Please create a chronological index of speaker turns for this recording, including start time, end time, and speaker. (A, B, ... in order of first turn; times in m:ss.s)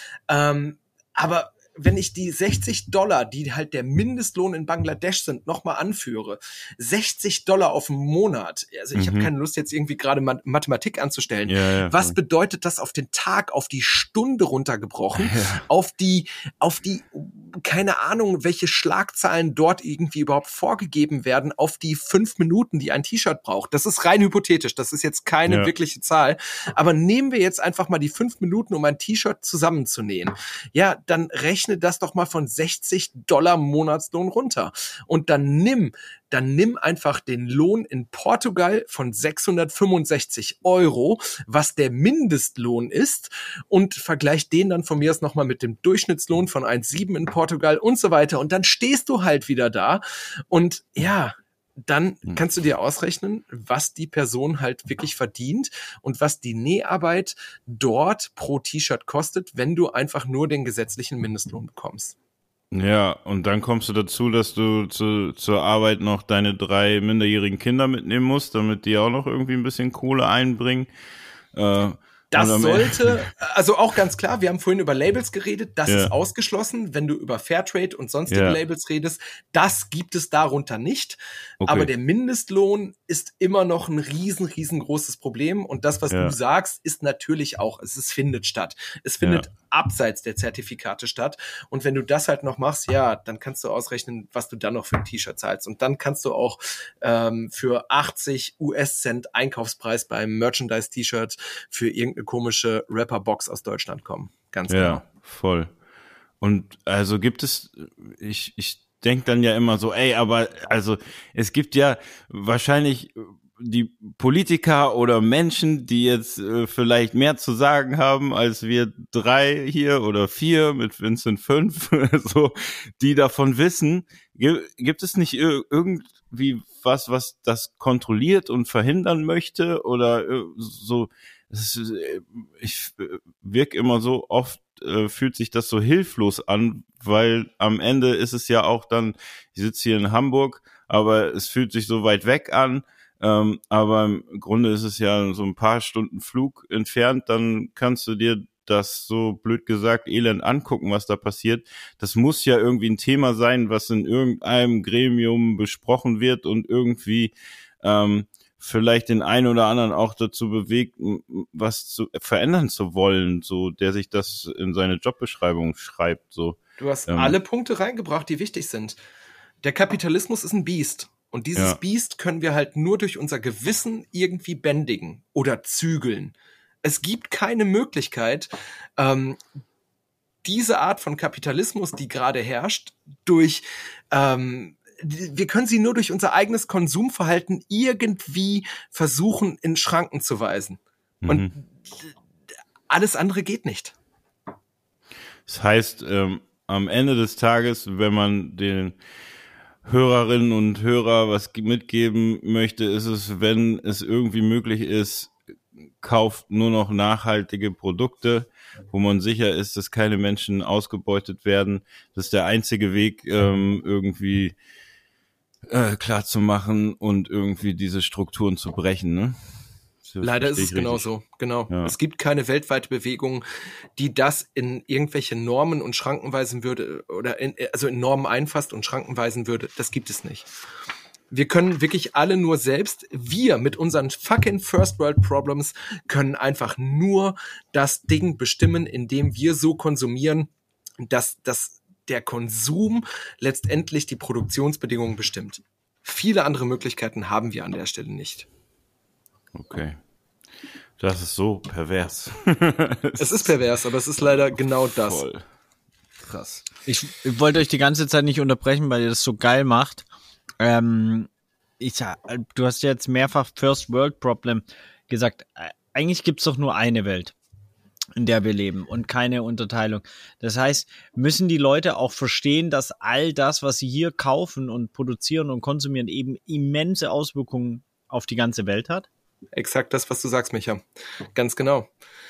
0:00.3-1:02.2 A
0:09.0-0:09.3 B
0:11.5-0:12.2 B
0:15.2-0:15.6 B
1:02.7-1:10.9 B
1:11.5-1:13.2 B
1:12.3-1:45.0 A
1:15.9-1:16.1 B
1:18.3-1:18.6 B
1:21.6-1:21.9 B
1:26.1-1:26.4 B
1:29.2-1:29.5 B
1:44.7-1:45.7 B
1:46.4-2:47.4 B
2:46.8-2:49.0 A
2:49.6-2:59.4 A
3:00.4-3:12.1 A
3:11.2-3:11.5 B
3:12.9-3:14.0 A
3:15.5-3:19.0 B
3:19.8-3:25.3 B
3:26.0-3:34.6 B
3:35.7-3:39.4 B
3:40.0-3:41.1 B
3:40.2-3:43.4 A
3:41.7-3:42.0 B
3:44.0-3:50.5 A
3:51.3-4:00.5 A
4:01.0-4:08.5 A
4:09.5-4:10.0 B
4:11.0-4:13.5 B
4:13.2-4:15.2 A
4:15.0-4:15.4 B
4:16.2-4:16.6 B
4:16.9-4:20.1 C
4:20.6-4:27.3 C
4:28.2-4:39.1 C
4:39.6-4:40.8 A
4:41.4-4:41.9 A